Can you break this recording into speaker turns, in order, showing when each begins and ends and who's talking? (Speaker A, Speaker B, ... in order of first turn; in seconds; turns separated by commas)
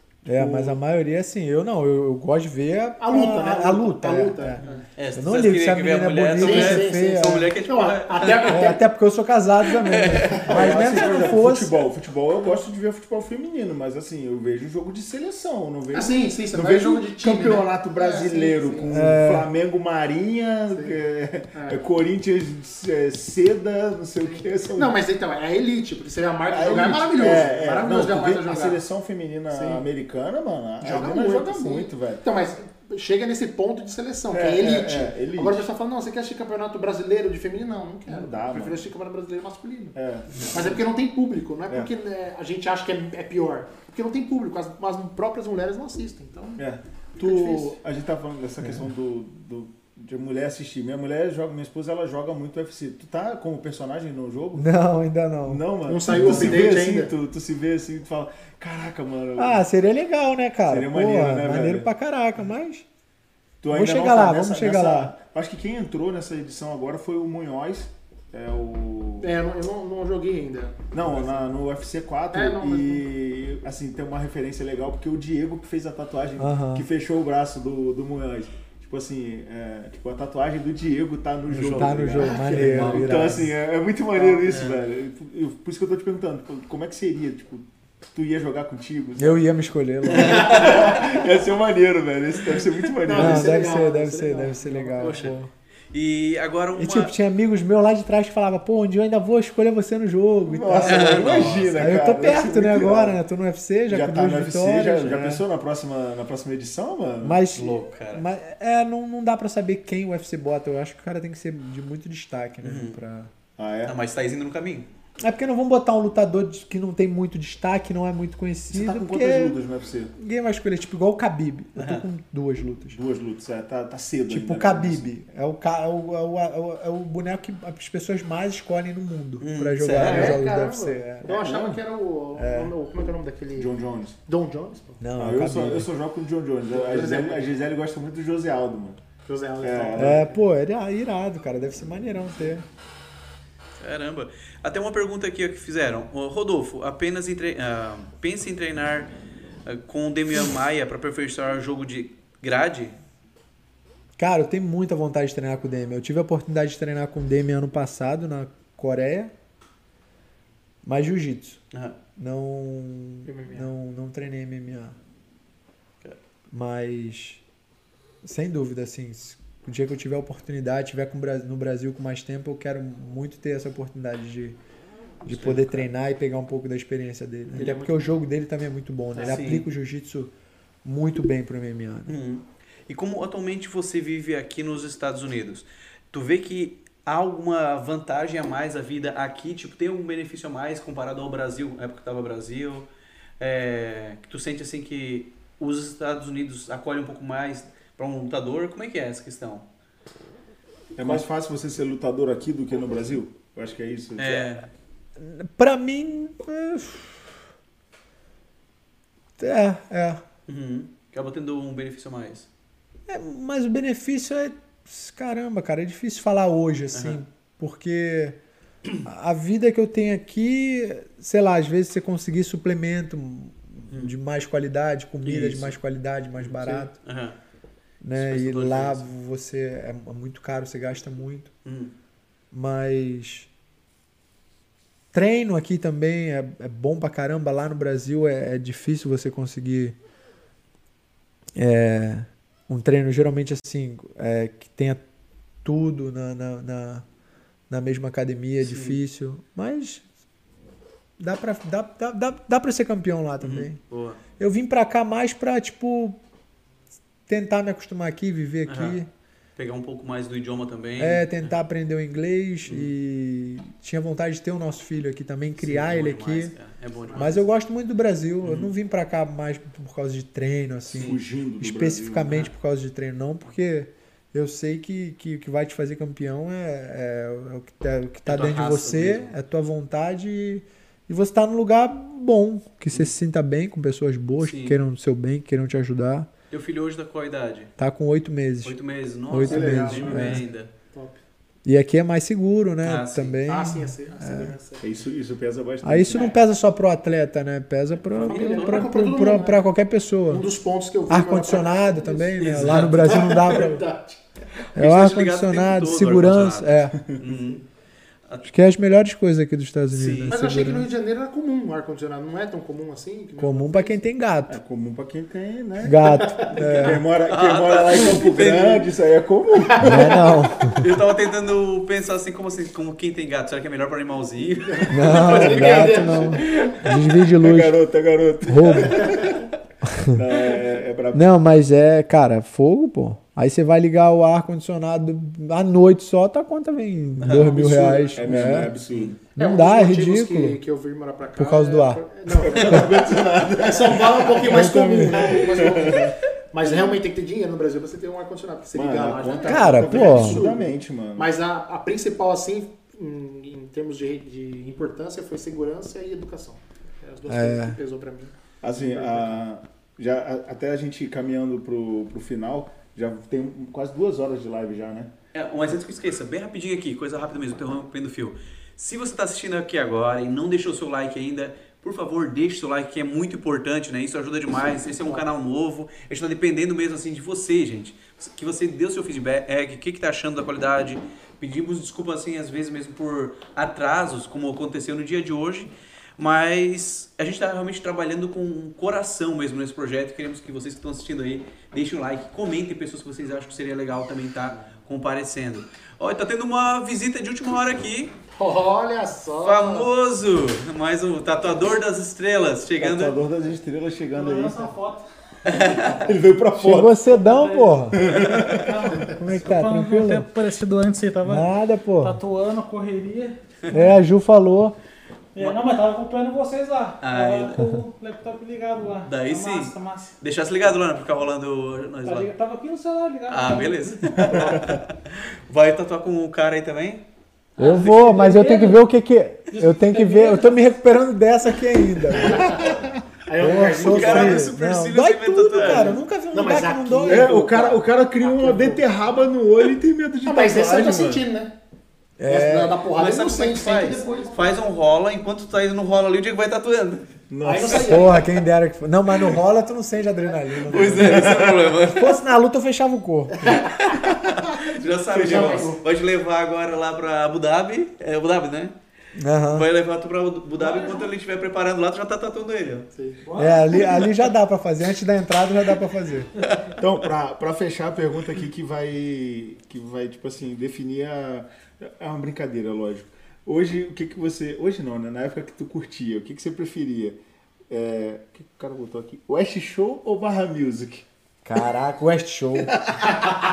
Speaker A: 0.2-4.6, Speaker B: 0.3-0.8, Speaker B: 3.0-4.8, Speaker C: 4.6-8.8, Speaker A: 5.1-7.5, Speaker B: 6.4-8.8, Speaker A: 8.4-11.8, Speaker C: 9.6-10.5, Speaker B: 10.3-10.9, Speaker D: 10.5-25.0, Speaker B: 15.9-19.0, Speaker A: 18.9-19.5, Speaker B: 21.5-21.8, Speaker B: 24.7-28.8, Speaker D: 26.5-32.2, Speaker B: 29.5-29.8, Speaker B: 30.8-40.0, Speaker D: 34.3-35.7, Speaker D: 38.1-38.9, Speaker D: 39.9-40.7, Speaker B: 40.5-46.6, Speaker D: 46.6-54.6, Speaker B: 47.2-47.7, Speaker A: 54.5-55.6, Speaker D: 55.4-59.6, Speaker B: 55.9-57.1, Speaker A: 59.4-62.8, Speaker D: 60.7-61.9, Speaker D: 63.6-69.3, Speaker A: 63.7-65.1, Speaker B: 69.2-71.4, Speaker D: 70.9-89.5, Speaker B: 72.3-73.0, Speaker A: 76.4-76.9, Speaker A: 81.5-83.5, Speaker B: 82.2-83.0, Speaker C: 82.5-83.0, Speaker B: 84.1-84.6, Speaker C: 84.5-84.8, Speaker A: 89.2-90.7, Speaker C: 90.1-91.0, Speaker D: 90.1-93.6, Speaker B: 90.2-91.1, Speaker B: 93.0-95.3, Speaker A: 93.1-95.5, Speaker C: 95.0-95.3, Speaker C: 95.9-97.1, Speaker A: 96.8-105.4, Speaker D: 100.5-103.2, Speaker C: 100.8-101.8, Speaker D: 103.9-107.4, Speaker A: 107.2-113.3, Speaker C: 107.5-108.2, Speaker C: 112.6-113.0, Speaker D: 113.6-113.9, Speaker C: 113.8-114.9, Speaker A: 115.2-119.5, Speaker D: 118.7-120.1, Speaker A: 120.2-123.0, Speaker C: 121.8-122.0, Speaker D: 122.9-125.1, Speaker A: 124.3-131.4, Speaker C: 129.4-130.4, Speaker B: 129.9-135.0, Speaker D: 131.3-131.8, Speaker A: 132.3-132.7, Speaker D: 133.5-134.2, Speaker A: 135.0-135.9, Speaker D: 135.2-139.0, Speaker B: 136.7-137.5, Speaker B: 139.2-140.4, Speaker D: 139.6-140.2, Speaker A: 139.9-142.7, Speaker C: 143.8-149.1, Speaker C: 149.7-152.9, Speaker A: 154.2-159.3, Speaker A: 160.8-161.6, Speaker C: 161.7-162.0, Speaker A: 162.2-165.0, Speaker B: 163.2-163.7, Speaker A: 166.5-167.4, Speaker A: 168.2-174.6, Speaker A: 175.2-180.3, Speaker C: 175.2-175.8, Speaker C: 177.5-177.7, Speaker B: 177.6-178.2, Speaker B: 179.1-179.4, Speaker C: 179.2-179.7, Speaker A: 180.8-182.2, Speaker C: 182.1-192.9, Speaker C: 193.4-199.7, Speaker D: 200.9-204.5, Speaker C: 204.2-204.7, Speaker A: 205.2-207.4, Speaker A: 209.4-210.2, Speaker C: 210.5-212.5, Speaker A: 213.1-218.4, Speaker C: 216.9-217.2, Speaker A: 219.0-226.9, Speaker C: 223.9-224.1, Speaker C: 225.2-225.8, Speaker C: 226.4-227.4, Speaker A: 228.0-231.5, Speaker C: 228.1-229.1, Speaker C: 231.6-231.9, Speaker A: 232.5-233.5, Speaker A: 235.1-240.0, Speaker A: 241.6-245.0, Speaker A: 245.6-247.0, Speaker A: 247.7-250.0, Speaker C: 248.6-249.0, Speaker A: 251.2-253.8, Speaker C: 253.4-254.2, Speaker A: 254.4-256.2, Speaker A: 257.3-259.1, Speaker C: 258.7-259.0, Speaker C: 259.6-261.6, Speaker A: 261.0-266.5, Speaker C: 262.6-262.9, Speaker C: 265.6-267.4, Speaker A: 267.1-286.3, Speaker C: 268.4-268.7, Speaker D: 270.9-272.5, Speaker C: 278.3-279.3, Speaker C: 284.4-284.8, Speaker C: 286.5-287.7, Speaker A: 287.8-288.8, Speaker C: 288.6-290.7, Speaker A: 289.3-290.4, Speaker D: 289.4-290.4, Speaker B: 289.4-290.2, Speaker B: 290.9-291.2, Speaker A: 291.6-294.5, Speaker C: 292.8-293.4, Speaker B: 293.4-294.9, Speaker D: 294.8-296.4, Speaker A: 295.8-300.4, Speaker B: 296.1-296.4, Speaker C: 298.1-298.9, Speaker B: 298.2-299.6, Speaker B: 300.3-304.2, Speaker A: 301.1-303.9, Speaker C: 302.4-303.5, Speaker C: 304.7-307.6, Speaker A: 304.7-307.0, Speaker A: 308.4-310.9, Speaker C: 309.9-310.4, Speaker B: 310.3-314.0, Speaker A: 313.4-314.6, Speaker D: 314.5-320.1, Speaker A: 315.8-317.0, Speaker B: 316.2-316.6, Speaker C: 317.3-318.9, Speaker B: 319.6-320.2, Speaker A: 319.8-320.9, Speaker C: 320.7-326.8, Speaker B: 324.6-326.7, Speaker A: 324.9-327.7, Speaker D: 327.2-329.5, Speaker A: 328.5-329.1, Speaker B: 329.0-329.3, Speaker A: 329.8-330.2, Speaker D: 330.1-331.3, Speaker A: 331.1-338.7, Speaker C: 337.2-337.6, Speaker B: 337.3-338.7, Speaker D: 338.1-339.2, Speaker C: 338.9-339.1, Speaker B: 339.3-359.4, Speaker A: 339.4-340.6, Speaker A: 341.4-342.0, Speaker D: 342.3-346.1, Speaker A: 344.4-345.9, Speaker D: 348.7-351.3, Speaker A: 349.4-350.4, Speaker A: 357.3-357.8, Speaker D: 358.6-365.1, Speaker C: 365.3-398.1, Speaker B: 398.3-399.9, Speaker C: 399.4-403.2, Speaker D: 402.8-404.7, Speaker E: 404.1-406.1, Speaker C: 405.4-406.1, Speaker D: 406.0-407.0, Speaker A: 406.6-408.0, Speaker E: 407.1-414.0, Speaker D: 407.9-408.7, Speaker C: 408.1-408.8, Speaker A: 409.1-410.3, Speaker A: 411.2-412.2, Speaker C: 413.6-413.9, Speaker A: 413.7-414.8, Speaker E: 415.3-420.1, Speaker C: 417.0-417.6, Speaker C: 419.1-422.3, Speaker E: 422.0-424.7, Speaker C: 423.3-427.0, Speaker D: 424.2-424.8, Speaker A: 427.6-432.6, Speaker B: 427.6-428.8, Speaker E: 427.7-428.7, Speaker E: 429.5-430.3, Speaker B: 432.1-434.5, Speaker D: 432.3-433.0, Speaker A: 433.4-437.3, Speaker C: 433.7-436.0, Speaker B: 436.3-438.9, Speaker D: 437.1-441.2, Speaker B: 440.2-441.6, Speaker A: 442.2-442.8, Speaker B: 442.3-444.4, Speaker C: 442.9-447.1, Speaker D: 447.3-448.1, Speaker B: 447.4-448.3, Speaker A: 447.6-453.5, Speaker C: 450.6-452.2, Speaker D: 451.0-451.6, Speaker B: 453.4-453.9, Speaker C: 453.4-458.7, Speaker D: 455.1-455.7, Speaker B: 455.1-455.8, Speaker A: 459.1-459.7, Speaker C: 459.5-462.9, Speaker E: 460.6-461.1, Speaker B: 462.9-463.3, Speaker E: 463.2-464.1, Speaker A: 463.4-466.3, Speaker C: 466.4-466.7, Speaker D: 466.8-477.2, Speaker D: 477.7-481.0, Speaker A: 481.4-482.8, Speaker D: 482.7-483.1